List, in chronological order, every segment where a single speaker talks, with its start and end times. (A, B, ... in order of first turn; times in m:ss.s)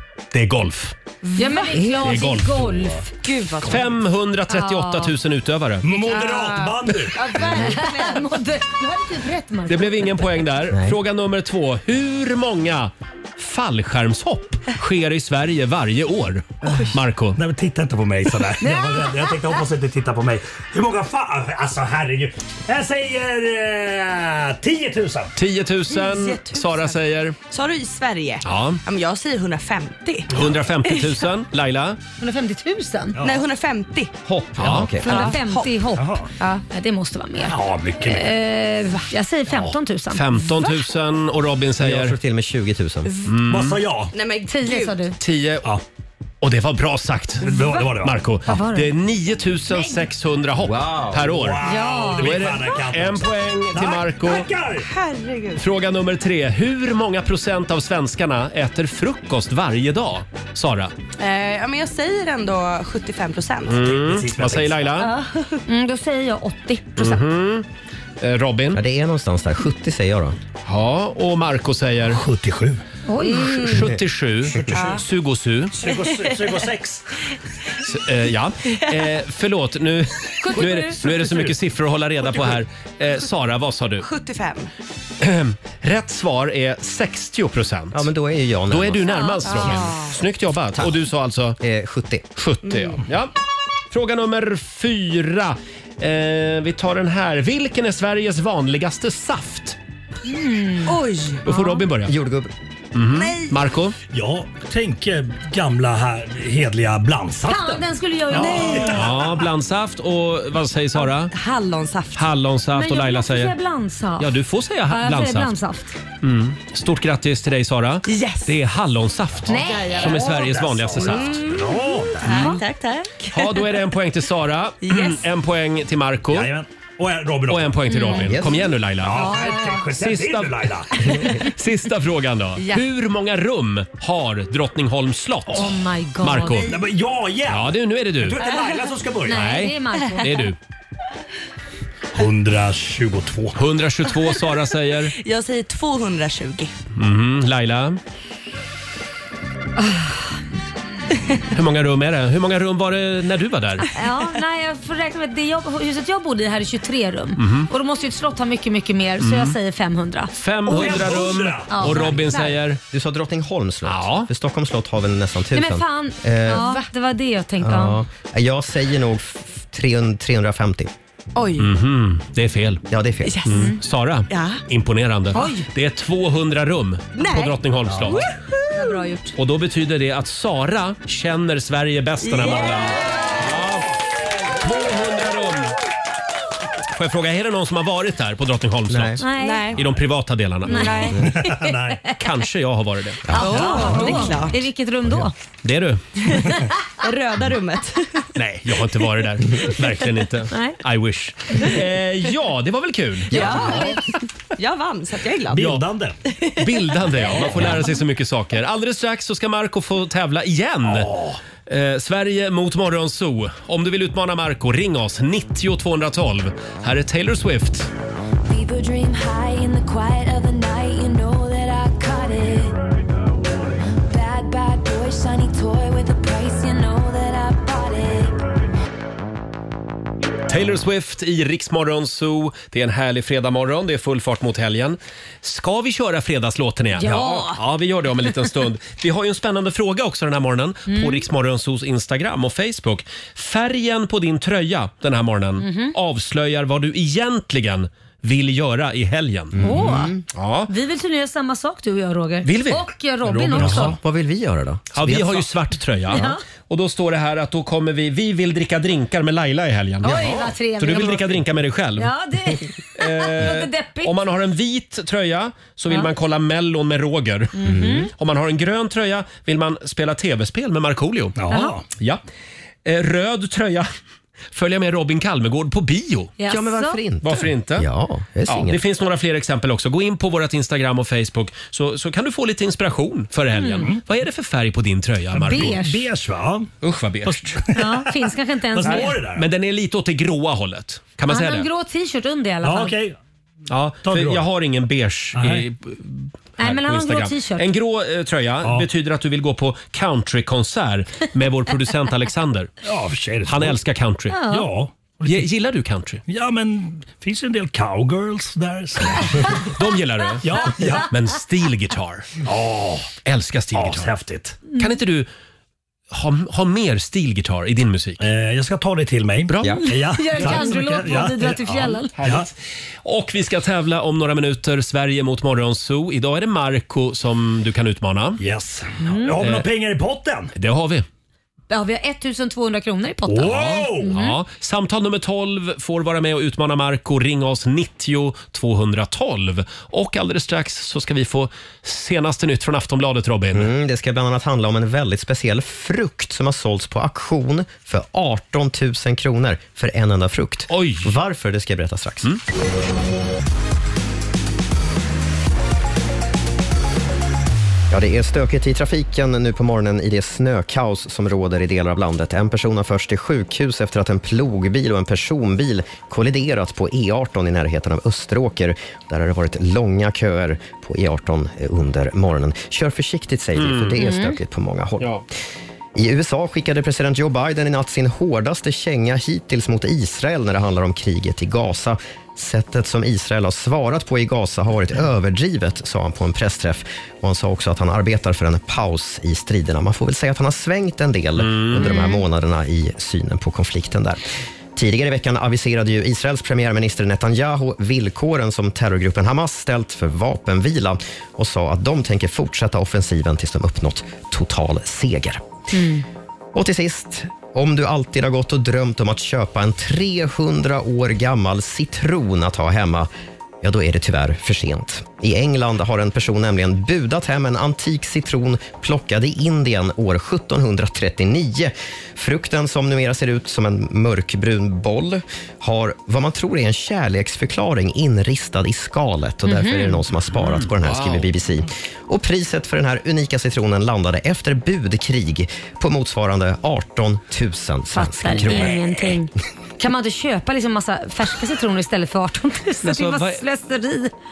0:00.3-0:01.0 A
0:01.2-0:02.1 B
0:01.4-0:03.7 C
0:02.0-0:02.7 A
0:03.2-0:03.8 B
0:03.6-0:05.9 A
0:04.5-0:05.1 C
0:05.8-0:07.2 D
0:06.0-0:06.5 C
0:07.2-0:10.2 C
0:07.2-0:08.3 B
0:07.5-0:07.8 E
0:09.7-0:17.4 A
0:10.7-0:11.0 E
0:17.4-0:25.3 D
0:18.6-0:19.1 C
0:25.4-0:27.4 A
0:25.9-0:27.0 B
0:27.5-0:30.3 B
0:28.4-0:28.8 A
0:30.3-0:32.0 A
0:30.8-0:31.2 B
0:32.2-0:33.2 C
0:33.2-0:33.4 D
0:33.2-0:34.1 B
0:34.3-0:35.0 A
0:34.5-0:35.3 E
0:35.0-0:40.4 C
0:35.1-0:35.8 B
0:36.0-0:36.3 D
0:36.4-0:36.6 B
0:37.5-0:38.3 D
0:40.1-0:42.2 A
0:41.8-0:43.1 E
0:43.2-0:43.8 A
0:43.5-0:44.1 D
0:44.1-0:45.0 B
0:44.4-0:45.2 C
0:45.2-0:45.7 A
0:46.4-0:54.5 A
0:47.4-0:48.2 D
0:48.5-0:48.9 C
0:50.6-0:51.4 E
0:51.2-0:54.9 D
0:51.6-0:52.4 C
0:54.8-0:55.6 B
0:55.6-1:00.9 A
1:01.2-1:03.8 B
1:03.7-1:05.1 A
1:03.8-1:05.0 D
1:05.0-1:05.6 B
1:05.7-1:07.2 C
1:07.0-1:07.7 A
1:08.2-1:08.8 A
1:08.7-1:10.4 E
1:10.6-1:12.2 A
1:12.1-1:12.8 D
1:13.1-1:13.7 C
1:13.4-1:15.8 A
1:14.5-1:15.0 D
1:14.6-1:15.0 B
1:15.8-1:17.1 D
1:15.9-1:16.6 B
1:17.8-1:24.1 A
1:20.4-1:21.0 C
1:21.1-1:21.5 D
1:22.2-1:22.6 D
1:24.0-1:24.7 B
1:25.2-1:28.1 A
1:27.9-1:29.1 E
1:28.7-1:31.6 A
1:29.1-1:29.9 C
1:29.5-1:30.1 B
1:31.6-1:32.3 E
1:32.4-1:33.3 A
1:32.7-1:33.0 B
1:33.9-1:39.8 A
1:40.3-1:41.8 C
1:40.9-1:41.4 B
1:41.4-1:42.1 A
1:42.1-1:42.5 E
1:42.9-1:44.0 A
1:43.1-1:43.6 B
1:44.1-1:49.2 D
1:47.5-1:49.1 C
1:48.5-1:51.3 A
1:51.0-1:52.2 B
1:52.2-1:53.6 A
1:52.7-1:54.4 C
1:54.2-1:55.6 A
1:54.9-1:56.0 C
1:56.2-2:01.4 A
1:58.1-1:58.5 B
1:59.5-2:00.4 C
1:59.5-2:00.3 B
2:00.2-2:02.5 D
2:01.2-2:01.7 B
2:02.2-2:03.5 B
2:02.3-2:02.6 A
2:03.3-2:06.5 A
2:04.8-2:05.2 B
2:06.3-2:07.8 D
2:07.5-2:16.7 A
2:07.9-2:08.4 C
2:08.2-2:08.6 E
2:09.0-2:11.1 D
2:09.1-2:09.9 C
2:12.6-2:12.8 B
2:15.5-2:16.8 C
2:16.7-2:19.4 D
2:17.5-2:18.4 A
2:19.2-2:20.4 C
2:19.3-2:20.6 A
2:22.1-2:23.6 D
2:23.6-2:25.1 A
2:25.2-2:26.7 B
2:27.0-2:28.0 A
2:29.8-2:30.1 C
2:31.5-2:33.9 A
2:33.9-2:40.9 C
2:37.4-2:37.7 A
2:39.2-2:39.6 A
2:40.3-2:42.8 A
2:40.7-2:42.0 D
2:41.7-2:42.2 C
2:42.0-2:42.5 B
2:42.9-2:46.7 E
2:43.8-2:44.3 A
2:45.5-2:48.0 C
2:47.6-2:50.9 E
2:51.4-2:51.7 B
2:51.6-2:52.8 A
2:52.9-2:53.4 E
2:53.2-2:53.7 B
2:53.4-2:58.3 A
2:54.3-2:54.6 B
2:55.3-2:55.7 C
2:57.2-2:59.0 B
2:58.7-2:59.3 C
2:59.4-3:03.9 A
3:02.2-3:03.2 B
3:04.6-3:05.8 A
3:06.9-3:09.2 A
3:08.9-3:09.2 E
3:09.2-3:09.7 C
3:09.4-3:09.8 B
3:09.8-3:11.0 A
3:10.6-3:11.6 C
3:10.7-3:11.2 B
3:11.2-3:12.0 D
3:12.2-3:13.4 A
3:13.2-3:14.1 E
3:13.4-3:15.3 C
3:13.4-3:14.6 B
3:13.5-3:14.2 D
3:15.6-3:16.1 A
3:17.0-3:18.3 B
3:18.6-3:23.9 A
3:19.8-3:20.1 D
3:20.5-3:20.8 C
3:23.3-3:24.0 B
3:23.4-3:23.8 E
3:23.5-3:23.9 C
3:24.6-3:25.8 B
3:25.5-3:26.2 D
3:26.3-3:26.6 B
3:26.6-3:31.1 A
3:30.9-3:31.4 D
3:31.7-3:37.9 A
3:38.5-3:42.8 F
3:44.1-3:48.3 F
3:50.5-4:09.7 A
3:57.0-3:57.6 C
4:00.9-4:01.3 C
4:05.6-4:06.0 C
4:09.5-4:10.2 E
4:09.6-4:10.2 C
4:10.3-4:10.7 A
4:10.7-4:14.0 C
4:12.4-4:13.9 A
4:13.5-4:15.5 E
4:14.9-4:22.1 A
4:16.1-4:16.4 C
4:20.0-4:21.3 C
4:20.1-4:20.5 E
4:22.0-4:24.2 C
4:23.0-4:27.6 A
4:27.6-4:28.1 C
4:27.6-4:28.1 E
4:28.1-4:31.4 A
4:31.4-4:31.8 D
4:31.5-4:31.8 C
4:32.8-4:33.9 A
4:34.5-4:36.4 A
4:36.4-4:37.0 C
4:36.5-4:38.8 E
4:37.2-4:37.9 A
4:38.5-4:45.8 A
4:43.5-4:43.9 C
4:45.3-4:46.7 D
4:45.4-4:46.1 C
4:46.8-4:47.5 A
4:47.2-4:49.5 D
4:47.8-4:49.2 C
4:48.9-4:51.7 A
4:51.3-4:53.0 C
4:52.6-4:53.2 D
4:53.7-5:02.7 A
4:54.0-4:54.4 D
4:55.4-4:55.6 D
4:56.6-4:57.7 C
5:02.8-5:03.8 D
5:03.5-5:04.4 A
5:04.3-5:04.7 C
5:04.5-5:05.5 D
5:05.3-5:06.2 A
5:06.3-5:09.7 D
5:09.7-5:12.3 A
5:10.4-5:11.1 D
5:12.4-5:13.1 D
5:13.2-5:14.1 A
5:13.7-5:14.6 D
5:14.8-5:15.3 A
5:16.1-5:18.2 A
5:18.2-5:22.5 D
5:19.5-5:19.8 A
5:19.7-5:22.2 C
5:20.4-5:20.7 A
5:22.2-5:28.4 A
5:28.4-5:30.5 D
5:29.0-5:29.4 C
5:29.4-5:29.7 A
5:30.6-5:31.1 A
5:31.7-5:34.4 C
5:33.3-5:34.1 D
5:33.5-5:43.7 A
5:43.5-5:52.3 E
5:50.7-5:51.1 A
5:57.9-6:15.1 E
6:13.6-6:14.0 A
6:14.0-6:14.4 C
6:16.0-6:34.2 E
6:31.4-6:32.0 A
6:31.8-6:32.2 C
6:34.8-6:45.4 E
6:45.7-6:46.0 C
6:46.5-6:53.1 E
6:53.6-7:18.8 E
7:09.4-7:10.0 C
7:10.3-7:11.3 A
7:17.9-7:24.1 C
7:22.8-7:23.4 A